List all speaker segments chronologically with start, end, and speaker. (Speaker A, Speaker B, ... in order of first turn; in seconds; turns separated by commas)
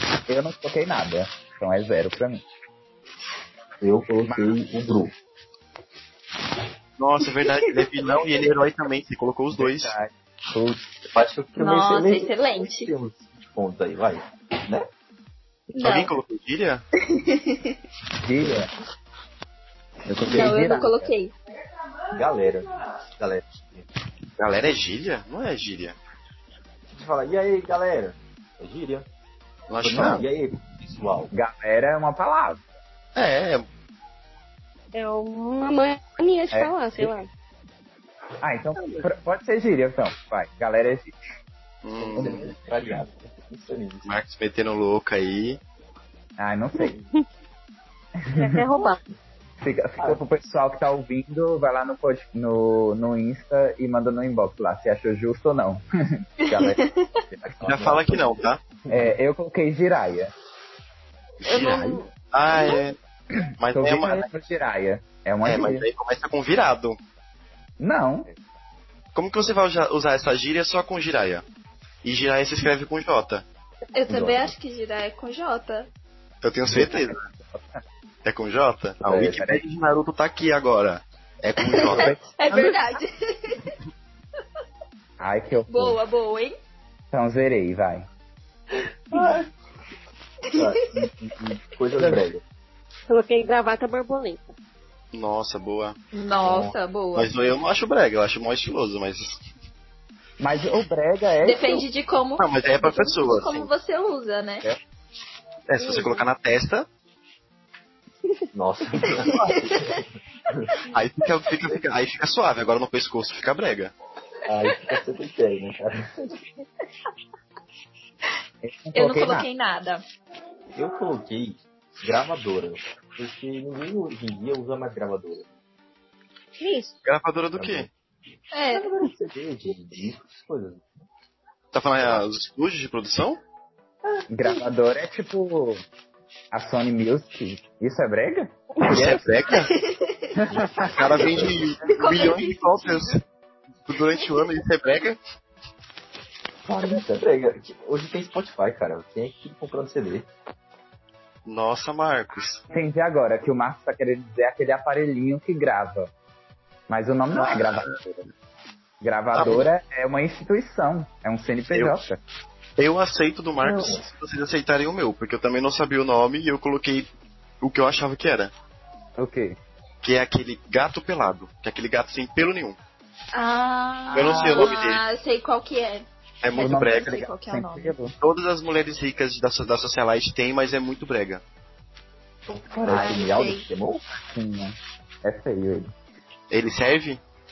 Speaker A: 0.3-2.4, Speaker B: 3.8-5.1, Speaker A: 4.3-4.6, Speaker C: 7.0-9.9, Speaker A: 9.6-10.8, Speaker B: 11.1-14.9, Speaker D: 11.6-12.9, Speaker D: 15.7-16.1, Speaker C: 15.8-16.8, Speaker D: 17.0-17.8, Speaker A: 18.2-18.7, Speaker B: 18.4-18.6, Speaker A: 20.1-21.1, Speaker B: 20.2-20.8, Speaker D: 20.3-21.3, Speaker B: 22.1-23.9, Speaker C: 24.4-26.0, Speaker B: 26.9-29.1, Speaker C: 29.7-30.3, Speaker B: 29.8-31.3, Speaker A: 31.3-32.6, Speaker C: 33.1-33.7, Speaker E: 34.9-37.3, Speaker A: 36.5-37.1, Speaker A: 38.4-41.1, Speaker C: 41.8-42.5, Speaker B: 42.0-44.1, Speaker A: 42.2-42.4, Speaker C: 44.0-45.6, Speaker A: 46.4-47.0, Speaker E: 46.8-47.2, Speaker A: 48.2-48.6, Speaker E: 48.3-49.0, Speaker A: 49.6-56.8, Speaker D: 56.4-57.2, Speaker B: 57.3-59.1, Speaker C: 57.6-58.6, Speaker A: 58.9-60.3, Speaker C: 61.4-63.0, Speaker D: 61.5-62.1, Speaker C: 63.6-64.3, Speaker A: 63.7-65.9, Speaker C: 65.4-67.0, Speaker A: 67.8-68.3, Speaker C: 69.2-71.4, Speaker C: 72.0-73.4, Speaker D: 74.0-75.9, Speaker B: 74.1-74.5, Speaker C: 76.4-77.2, Speaker A: 76.7-77.8, Speaker C: 78.2-82.2, Speaker B: 79.0-79.4, Speaker A: 79.2-79.6, Speaker D: 81.7-83.7, Speaker A: 81.9-82.7, Speaker A: 85.2-86.0, Speaker D: 85.7-86.6, Speaker A: 87.1-88.1, Speaker B: 89.1-89.5, Speaker B: 90.5-92.4, Speaker A: 92.0-92.3, Speaker E: 93.1-94.5, Speaker C: 95.1-96.0, Speaker D: 96.1-97.3, Speaker B: 96.4-96.8, Speaker C: 97.2-99.4, Speaker A: 100.4-101.9, Speaker D: 101.4-104.7, Speaker C: 102.4-103.7, Speaker C: 105.7-106.9, Speaker E: 105.8-106.3, Speaker B: 108.5-110.7, Speaker C: 109.3-109.7, Speaker D: 109.3-110.0, Speaker C: 110.9-113.9, Speaker B: 114.5-116.3, Speaker A: 118.6-119.5, Speaker D: 119.0-120.0, Speaker B: 120.8-125.5, Speaker E: 126.6-127.0, Speaker C: 127.0-127.9, Speaker B: 127.6-127.9, Speaker D: 128.5-129.0, Speaker B: 128.7-131.1, Speaker C: 131.7-133.4, Speaker A: 134.3-135.8, Speaker A: 136.5-139.2, Speaker C: 138.8-139.7, Speaker B: 138.9-139.4, Speaker D: 139.5-140.4, Speaker A: 140.4-140.9, Speaker B: 140.5-141.6, Speaker C: 140.9-143.2, Speaker D: 141.9-143.2, Speaker C: 143.9-145.2, Speaker B: 146.7-150.3, Speaker C: 151.5-152.6, Speaker A: 152.7-156.1, Speaker A: 156.9-157.9, Speaker C: 157.3-158.3, Speaker A: 159.0-162.2, Speaker C: 159.3-159.7, Speaker C: 162.8-167.1, Speaker B: 163.6-164.1, Speaker C: 167.6-168.5, Speaker A: 169.2-169.6, Speaker C: 170.0-172.8, Speaker D: 173.3-177.9, Speaker A: 174.1-174.7, Speaker C: 174.1-175.0, Speaker C: 176.4-177.2, Speaker A: 176.6-178.1, Speaker C: 178.2-181.4, Speaker B: 182.5-184.0, Speaker D: 182.8-183.7, Speaker A: 182.9-183.2, Speaker A: 184.2-185.9, Speaker C: 186.5-187.2